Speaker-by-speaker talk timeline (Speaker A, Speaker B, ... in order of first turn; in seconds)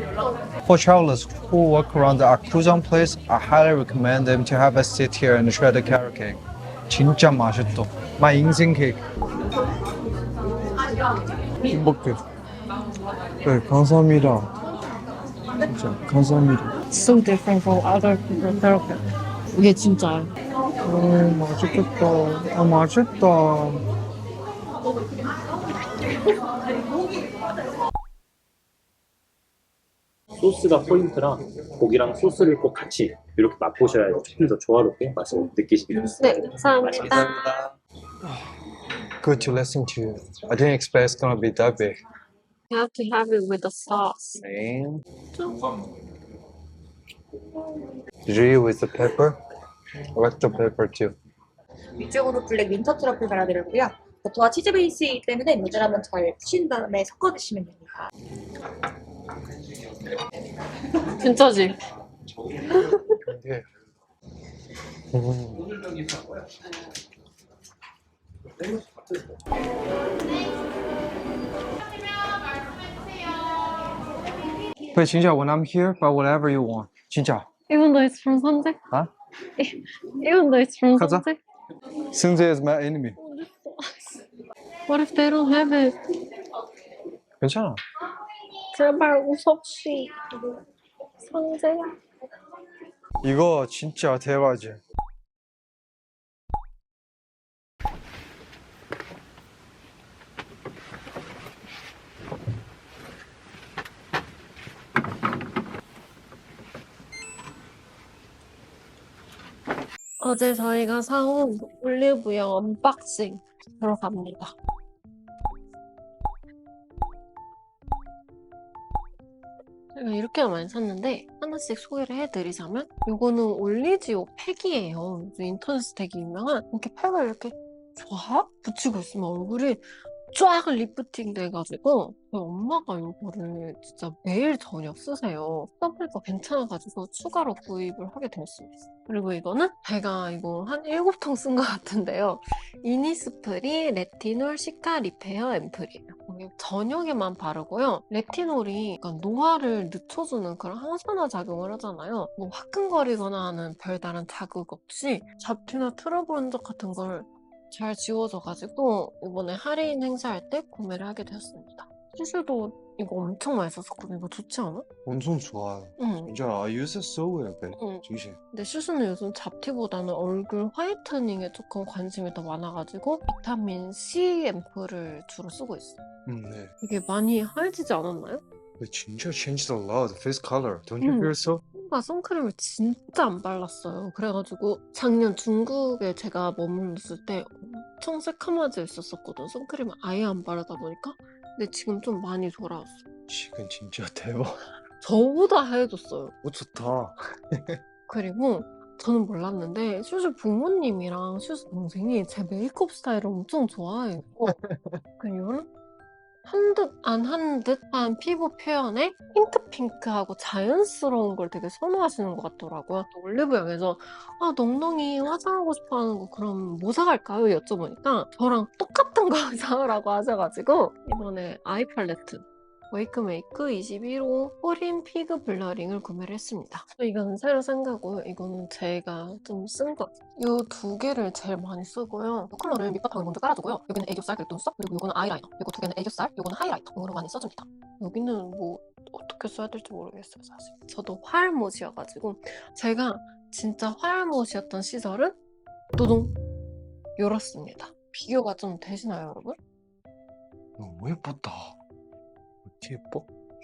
Speaker A: 0.6-9.0, 11.6-12.2, 13.4-14.5, 15.6-16.8, 20.8-23.9, 39.2-42.0, 44.4-45.0, 48.2-49.4, 50.1-51.1, 63.2-63.6, 65.1-65.9, 74.9-77.5, 81.0-81.2, 82.1-83.2, 87.4-87.8, 93.2-94.8, 165.0-168.4, 176.2-176.7, 178.8-181.6, 193.3-194.6, 196.4-197.8, 204.4-205.0, 250.8-251.8, 252.6-253.3
Speaker B: 16.9-19.0, 19.5-20.3, 36.2-37.7, 42.7-44.4, 45.3-45.6, 61.1-61.7, 62.7-63.2, 77.7-78.8, 79.6-81.4, 83.2-84.2, 84.9-86.0, 88.7-90.3, 91.2-92.0, 110.2-114.5, 119.9-164.8, 166.0-166.3, 167.8-176.0, 176.8-178.4, 181.0-193.0, 195.0-196.3, 198.1-204.6, 205.2-205.7, 206.4-245.4, 245.9-246.3, 247.2-249.6
Speaker C: 30.4-37.1
Speaker D: 52.0-58.0